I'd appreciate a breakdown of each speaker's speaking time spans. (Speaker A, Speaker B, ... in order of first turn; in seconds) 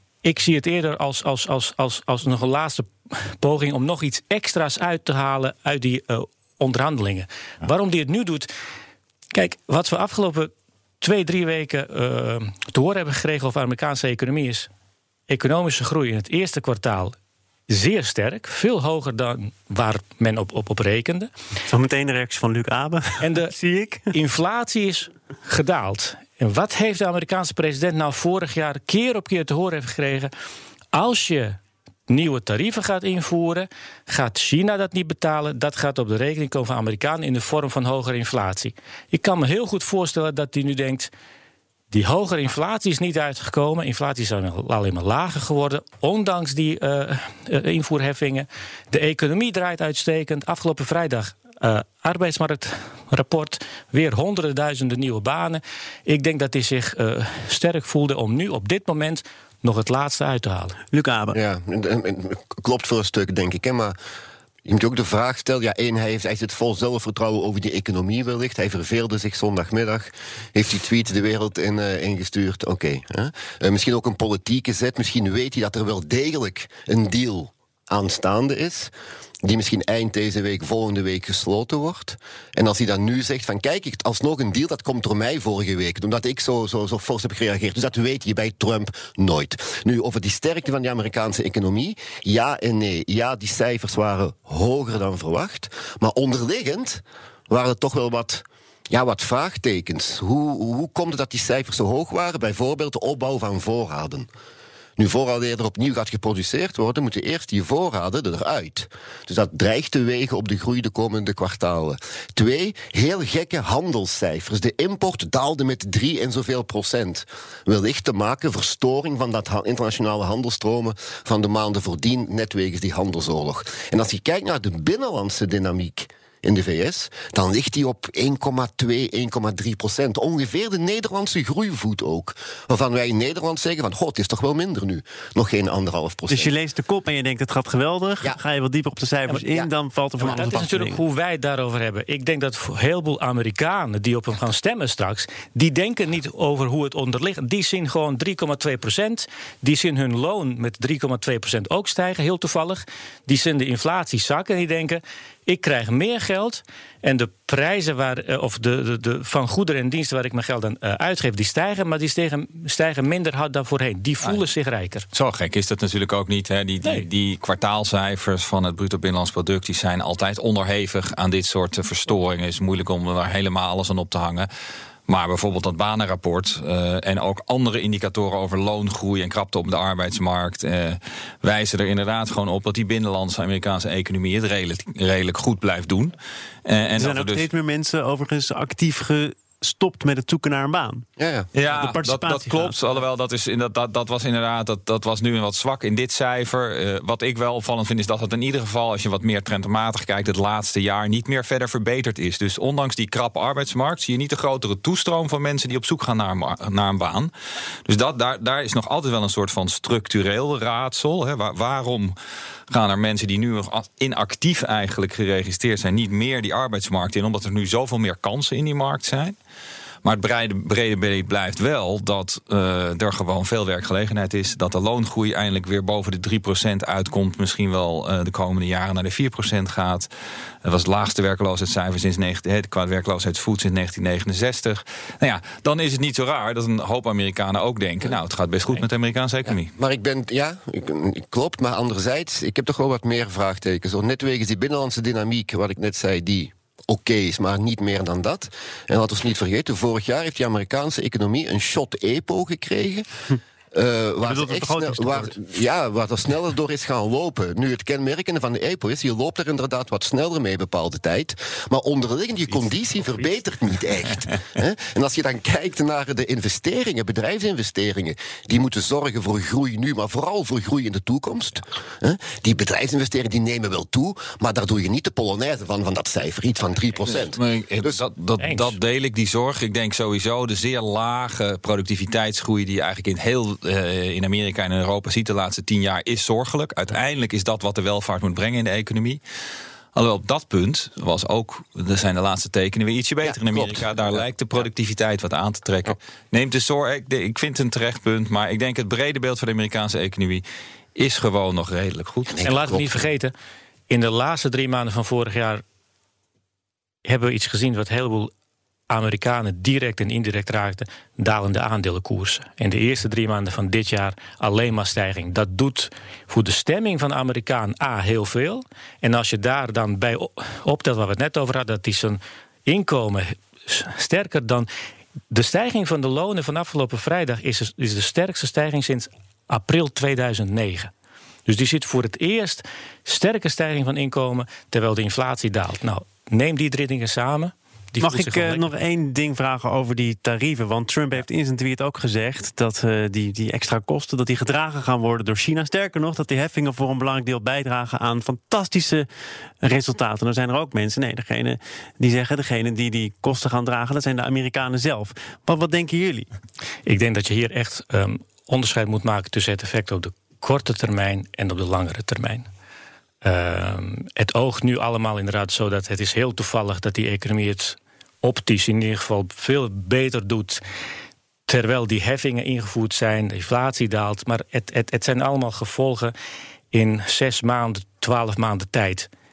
Speaker A: 0.2-8.5, 9.3-14.7, 15.3-17.1, 17.7-21.3, 23.2-23.5, 24.1-30.3, 30.9-41.1, 41.9-60.8, 140.2-165.1, 278.4-278.7, 302.4-303.3, 303.9-305.6, 307.0-308.3, 308.9-324.7, 325.3-330.9, 331.4-338.6, 356.9-362.5, 363.2-370.6, 371.5-376.1, 376.7-379.1
Speaker B: 21.7-24.1, 60.9-61.4, 136.3-141.0, 187.0-191.1, 191.7-192.7, 254.2-255.3, 338.0-349.1, 349.6-356.3
Speaker C: 61.3-64.0, 64.6-78.9, 79.4-104.3, 105.0-136.5, 191.2-191.5, 239.5-253.1, 253.7-278.0, 293.2-293.8, 302.3-303.1
Speaker D: 165.1-174.5, 175.1-186.1, 186.7-187.5, 191.5-207.3, 207.8-212.1, 212.7-219.3, 220.0-230.1, 230.6-239.7, 277.1-289.2, 289.9-300.4, 300.9-302.3